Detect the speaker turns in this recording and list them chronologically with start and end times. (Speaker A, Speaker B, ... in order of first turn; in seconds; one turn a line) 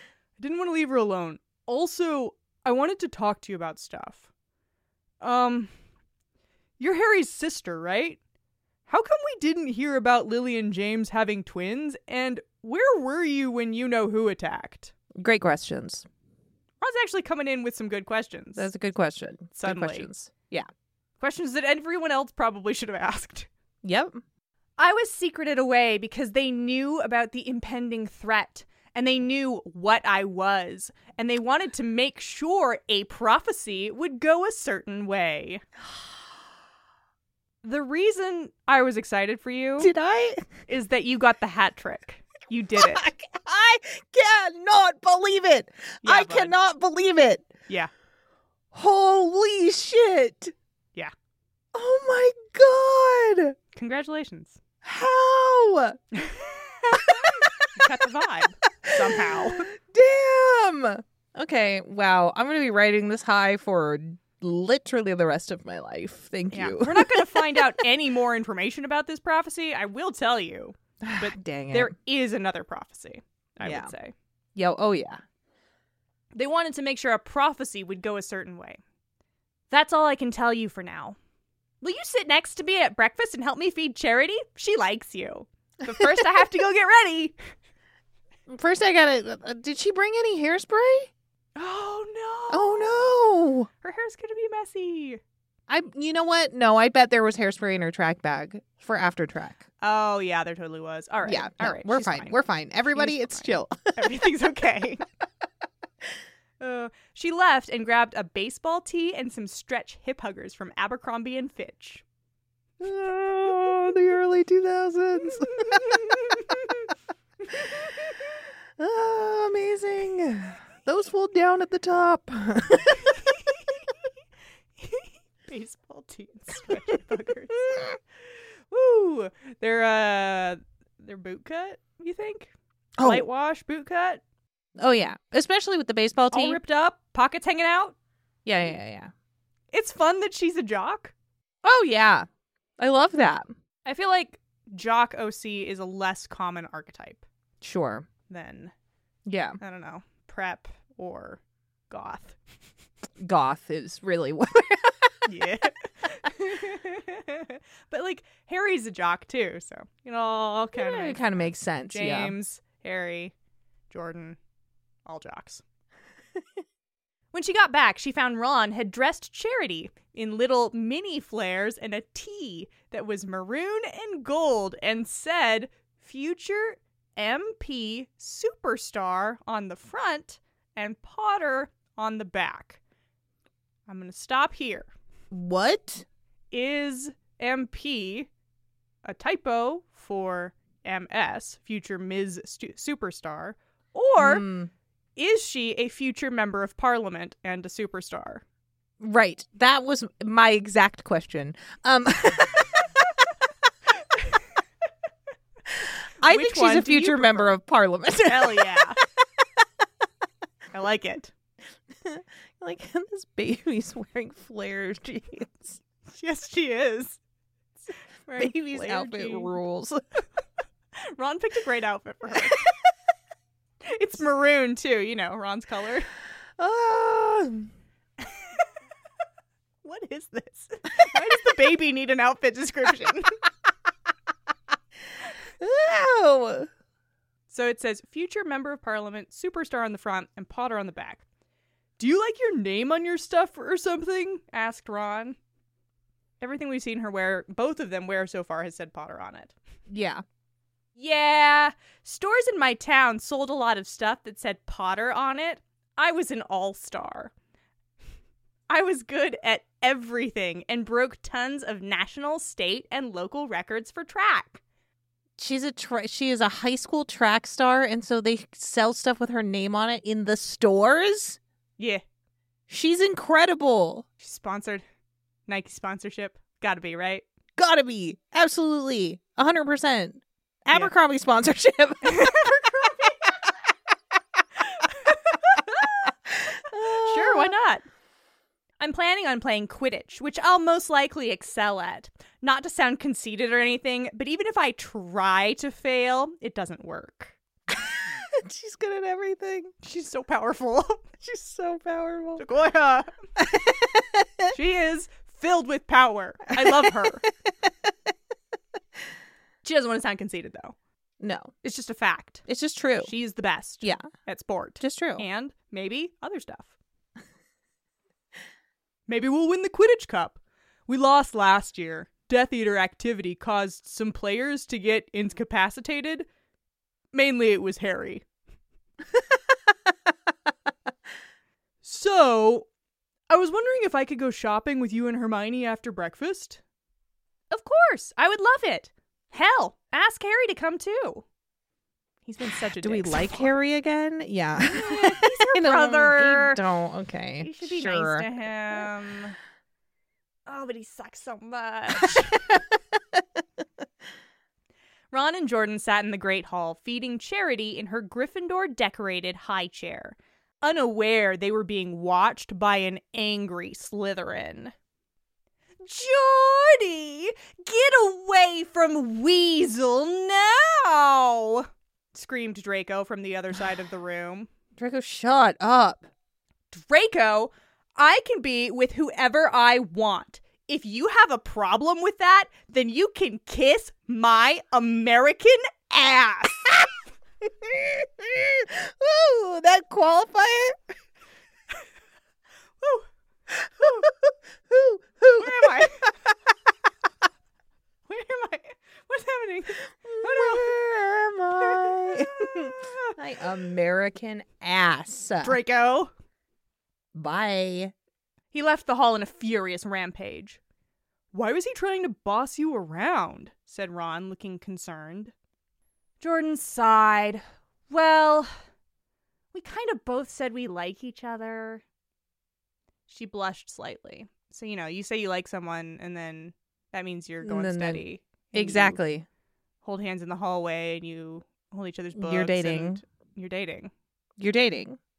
Speaker A: 0.4-4.3
Speaker A: 5.2-5.7
Speaker A: 6.8-8.2
Speaker A: 8.9-14.9
Speaker B: 15.2-16.1
Speaker A: 16.8-18.7
Speaker B: 18.6-20.7
Speaker A: 19.5-20.1
Speaker A: 21.2-23.5
Speaker B: 23.8-24.2
Speaker A: 24.8-35.6
Speaker A: 37.6-39.9
Speaker B: 39.8-40.5
Speaker A: 40.7-43.0
Speaker B: 42.8-47.5
Speaker A: 46.0-46.5
Speaker B: 48.7-50.5
Speaker B: 51.7-53.5
Speaker A: 53.7-54.6
Speaker B: 54.8-56.0
Speaker A: 56.1-59.7
Speaker B: 56.9-57.7
Speaker B: 58.8-67.6
Speaker A: 66.5-74.1
Speaker B: 71.0-71.9
Speaker B: 73.6-73.9
Speaker B: 74.5-75.2
Speaker A: 76.3-78.8
Speaker A: 79.7-81.2
Speaker A: 81.8-87.3
Speaker B: 88.5-91.1
Speaker A: 91.5-92.9
Speaker B: 92.5-93.7
Speaker A: 93.8-95.2
Speaker B: 95.7-99.6
Speaker A: 99.8-102.4
Speaker B: 101.2-104.2
Speaker A: 102.9-105.0
Speaker A: 106.6-112.0
Speaker B: 112.8-116.0
Speaker A: 115.5-116.2
Speaker B: 118.8-123.4
Speaker A: 124.8-127.9
Speaker A: 128.7-134.2
Speaker B: 133.0-133.2
Speaker B: 134.8-136.6
Speaker A: 136.3-137.9
Speaker B: 138.4-139.1
Speaker A: 139.7-141.1
Speaker B: 141.6-142.3
Speaker B: 142.8-143.5
Speaker A: 143.8-147.2
Speaker B: 147.6-148.1
Speaker A: 148.3-148.7
Speaker B: 149.3-149.6
Speaker A: 149.6-152.4
Speaker B: 153.2-155.2
Speaker A: 155.2-163.3
Speaker B: 160.7-162.3
Speaker A: 163.9-164.4
Speaker A: 165.1-165.6
Speaker A: 167.3-182.8
Speaker A: 183.9-184.9
Speaker B: 185.3-186.0
Speaker A: 186.5-188.3
Speaker A: 189.0-194.4
Speaker B: 194.2-194.7
Speaker A: 195.2-198.4
Speaker B: 199.0-203.0
Speaker B: 205.7-208.8
Speaker A: 206.2-207.6
Speaker A: 208.2-209.0
Speaker A: 210.7-211.3
Speaker B: 211.9-215.8
Speaker A: 216.1-217.2
Speaker A: 218.2-219.5
Speaker B: 218.4-220.0
Speaker A: 221.1-222.7
Speaker A: 223.8-226.1
Speaker B: 226.6-227.7
Speaker A: 229.8-233.4
Speaker B: 235.6-236.7
Speaker A: 237.5-241.2
Speaker A: 242.0-245.4
Speaker A: 246.4-249.5
Speaker B: 249.9-250.2
Speaker A: 251.0-257.3
Speaker A: 258.7-264.6
Speaker B: 265.4-271.4
Speaker B: 272.7-274.0
Speaker A: 274.2-274.8
Speaker A: 275.5-277.2
Speaker B: 277.6-282.5
Speaker A: 282.0-283.3
Speaker A: 284.8-285.9
Speaker B: 285.8-287.5
Speaker A: 286.8-287.8
Speaker A: 288.8-297.4
Speaker B: 297.7-299.7
Speaker A: 299.8-301.1
Speaker B: 301.2-302.4
Speaker A: 302.4-303.2
Speaker B: 303.4-304.5
Speaker A: 304.5-307.2
Speaker B: 306.5-307.9
Speaker A: 309.6-310.8
Speaker B: 311.2-311.5
Speaker A: 311.6-312.4
Speaker B: 312.4-313.1
Speaker A: 313.0-316.8
Speaker B: 314.8-315.2
Speaker A: 319.1-326.3
Speaker A: 327.1-328.2
Speaker A: 331.8-332.7
Speaker A: 333.3-336.6
Speaker A: 337.5-341.2
Speaker A: 342.2-343.5
Speaker B: 342.8-348.8
Speaker A: 344.6-346.6
Speaker A: 347.4-349.4
Speaker A: 350.4-352.5
Speaker A: 355.1-364.7
Speaker A: 365.8-374.5
Speaker B: 374.8-376.1
Speaker A: 376.7-386.7
Speaker B: 387.4-390.8
Speaker A: 392.8-393.1
Speaker B: 393.5-396.1
Speaker A: 393.8-394.1
Speaker A: 395.4-396.1
Speaker A: 398.1-400.7
Speaker B: 400.0-405.6
Speaker A: 401.6-403.1
Speaker A: 405.4-406.1
Speaker B: 407.1-407.9
Speaker A: 408.5-410.6
Speaker A: 411.3-415.3
Speaker A: 416.2-418.5
Speaker A: 419.5-421.8
Speaker A: 423.1-429.0
Speaker B: 427.4-429.2
Speaker A: 429.8-433.9
Speaker B: 432.1-433.0
Speaker B: 434.4-435.0